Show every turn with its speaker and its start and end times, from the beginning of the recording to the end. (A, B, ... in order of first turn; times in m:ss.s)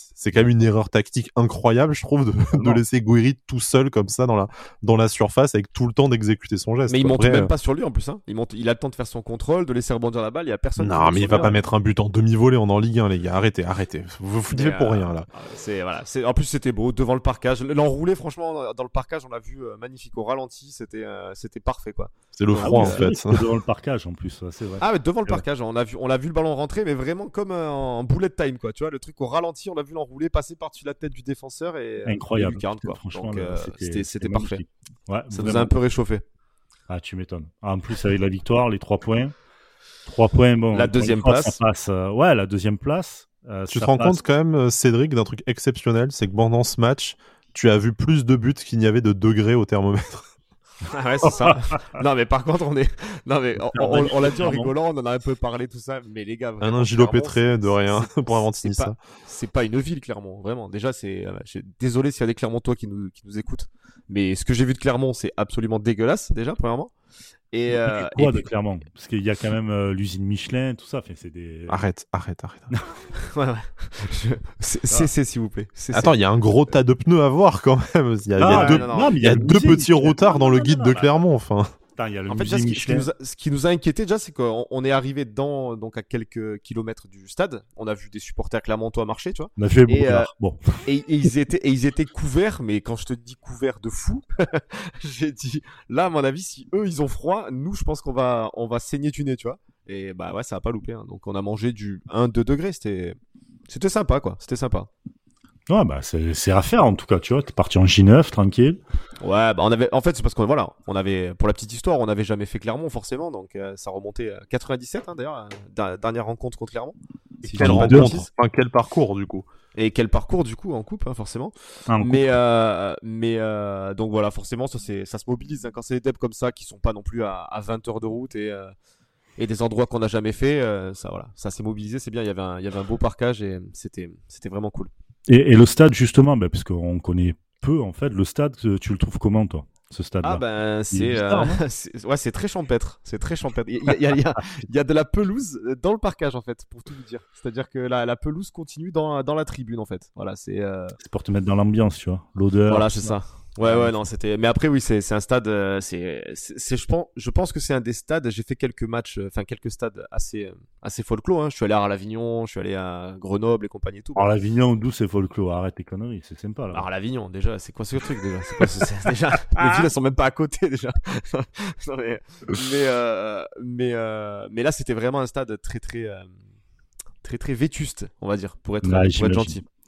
0:00.1-0:07.5 A
0:02.5-0:02.8 B
0:06.9-0:11.5 C
0:10.8-0:15.3 A
0:14.5-0:23.0 C
0:22.4-0:23.4 A
0:22.6-0:25.4 B
0:24.8-0:34.6 C
0:32.0-0:35.7 B
0:35.3-0:36.2 C
0:36.9-0:39.3 B
0:40.0-0:44.2 B
0:40.7-0:41.6 C
0:43.7-0:50.3 A
0:50.9-1:06.9 C
0:53.7-0:54.7 B
0:56.6-0:59.0 A
1:07.5-1:08.4 C
1:07.7-1:11.8 B
1:11.7-1:12.7 A
1:12.7-1:13.0 B
1:13.1-1:16.1 C
1:15.9-1:21.8 A
1:18.4-1:19.3 C
1:18.4-1:21.1 B
1:22.0-1:23.1 B
1:22.3-1:30.3 C
1:29.6-1:30.9 B
1:30.8-1:43.2 C
1:43.7-1:44.9 C
1:45.7-1:48.8 B
1:49.2-1:58.3 C
1:57.5-1:59.5 A
1:57.6-1:58.2 B
1:59.7-2:08.7 C
2:01.9-2:02.2 B
2:09.4-2:14.9 C
2:15.3-2:21.6 B
2:20.2-2:31.0 C
2:31.0-2:34.0 B
2:32.7-2:44.3 C
2:44.2-2:46.8 B
2:46.7-2:56.3 C
2:49.6-2:49.9 B
2:57.2-2:59.6 C
2:58.8-2:59.6 B